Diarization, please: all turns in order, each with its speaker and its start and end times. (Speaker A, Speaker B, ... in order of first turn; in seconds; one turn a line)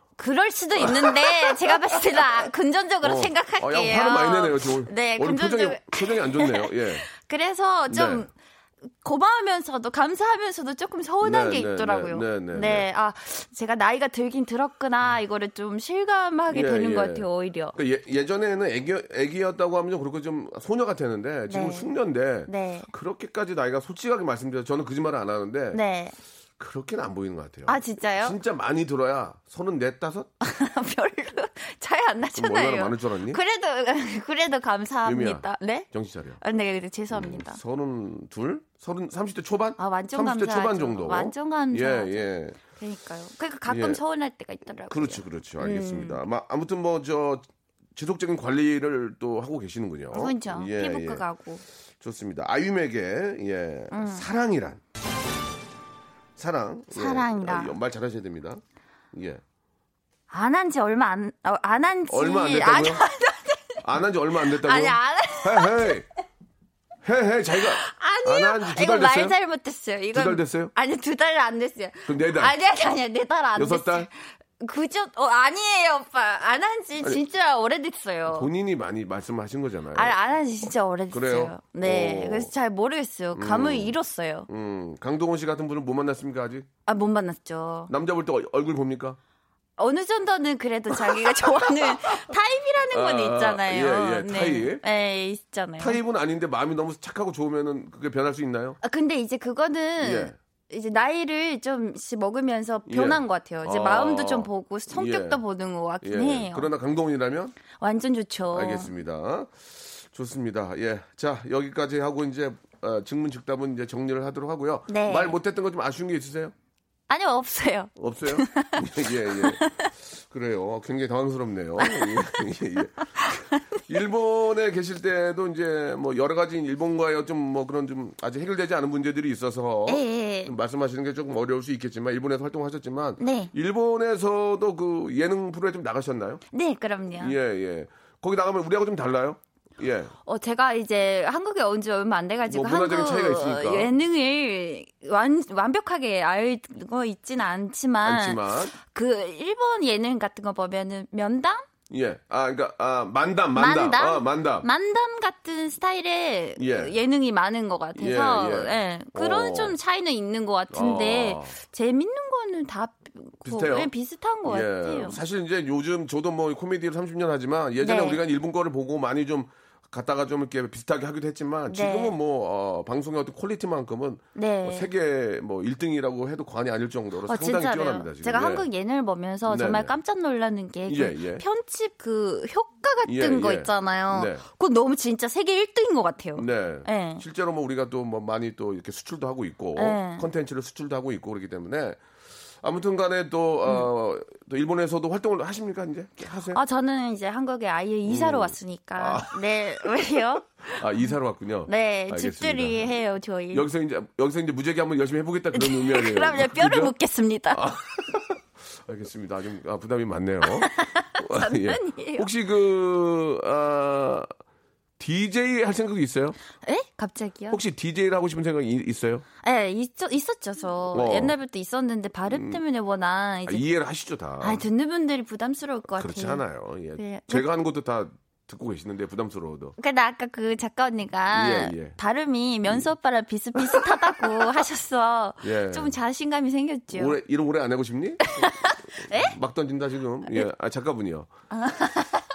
Speaker A: 0.2-8.3
Speaker B: 0.8-2.4
Speaker B: 3.0-7.0
Speaker B: 7.9-8.3
Speaker A: 9.0-17.7
Speaker B: 11.2-12.8
Speaker B: 16.5-25.8
Speaker A: 21.5-21.9
Speaker A: 22.5-22.9
Speaker A: 25.7-26.1
Speaker B: 26.6-30.3
Speaker A: 27.6-28.4
Speaker A: 30.4-35.9
Speaker B: 32.4-33.4
Speaker B: 35.0-36.4
Speaker A: 36.4-37.6
Speaker B: 37.1-42.6
Speaker A: 39.8-42.1
Speaker A: 42.7-46.2
Speaker B: 43.7-44.0
Speaker B: 44.9-47.4
Speaker B: 48.0-51.2
Speaker A: 50.1-51.6
Speaker B: 52.0-54.8
Speaker A: 53.9-54.2
Speaker B: 56.4-58.6
Speaker A: 56.9-57.7
Speaker B: 59.1-59.4
Speaker A: 60.3-63.8
Speaker B: 62.1-63.0
Speaker B: 63.8-66.0
Speaker A: 64.4-66.0
Speaker B: 67.0-69.3
Speaker A: 67.5-78.5
Speaker B: 70.1-70.7
Speaker B: 72.0-72.5
Speaker B: 73.5-74.1
Speaker B: 78.3-80.1
Speaker A: 79.9-84.5
Speaker B: 81.1-82.5
Speaker B: 83.3-84.0
Speaker B: 84.5-86.7
Speaker A: 86.8-87.9
Speaker B: 87.9-89.2
Speaker A: 89.8-96.0
Speaker B: 91.0-92.2
Speaker B: 92.9-94.8
Speaker B: 95.8-98.8
Speaker A: 98.8-106.7
Speaker B: 100.0-100.3
Speaker B: 102.9-105.4
Speaker B: 106.0-107.5
Speaker A: 107.8-108.9
Speaker B: 108.5-116.5
Speaker A: 114.9-115.3
Speaker A: 117.1-119.9
Speaker B: 118.0-119.6
Speaker B: 120.1-136.4
Speaker A: 121.8-122.1
Speaker A: 123.2-123.6
Speaker A: 129.9-130.5
Speaker A: 133.2-133.5
Speaker A: 136.5-137.3
Speaker B: 137.2-140.1
Speaker A: 140.2-151.7
Speaker B: 142.5-143.9
Speaker B: 148.0-148.7
Speaker B: 151.9-154.7
Speaker A: 153.5-165.2
Speaker B: 156.6-156.9
Speaker B: 157.9-159.8
Speaker B: 160.7-161.6
Speaker B: 163.4-163.9
Speaker B: 164.4-178.7
Speaker A: 167.8-168.2
Speaker A: 171.7-172.2
Speaker A: 174.3-174.9
Speaker A: 177.2-187.2
Speaker B: 179.5-179.9
Speaker B: 180.9-181.4
Speaker B: 183.1-184.4
Speaker B: 186.3-192.0
Speaker A: 189.8-190.2
Speaker B: 192.6-196.6
Speaker A: 196.5-200.8
Speaker B: 198.1-199.4
Speaker B: 200.7-202.9
Speaker A: 201.7-203.7
Speaker B: 203.5-206.9
Speaker A: 205.5-207.7
Speaker B: 207.5-214.3
Speaker A: 210.4-212.3
Speaker B: 215.0-216.4
Speaker A: 216.6-217.6
Speaker B: 217.5-219.2
Speaker A: 219.4-223.6
Speaker B: 220.9-221.3
Speaker B: 222.3-222.6
Speaker B: 223.5-224.6
Speaker A: 224.4-226.4
Speaker B: 225.9-229.7
Speaker A: 226.9-227.5
Speaker A: 229.8-237.2
Speaker B: 231.3-232.0
Speaker B: 233.6-234.2
Speaker B: 235.4-235.9
Speaker B: 236.9-241.3
Speaker A: 238.3-239.3
Speaker A: 241.5-242.2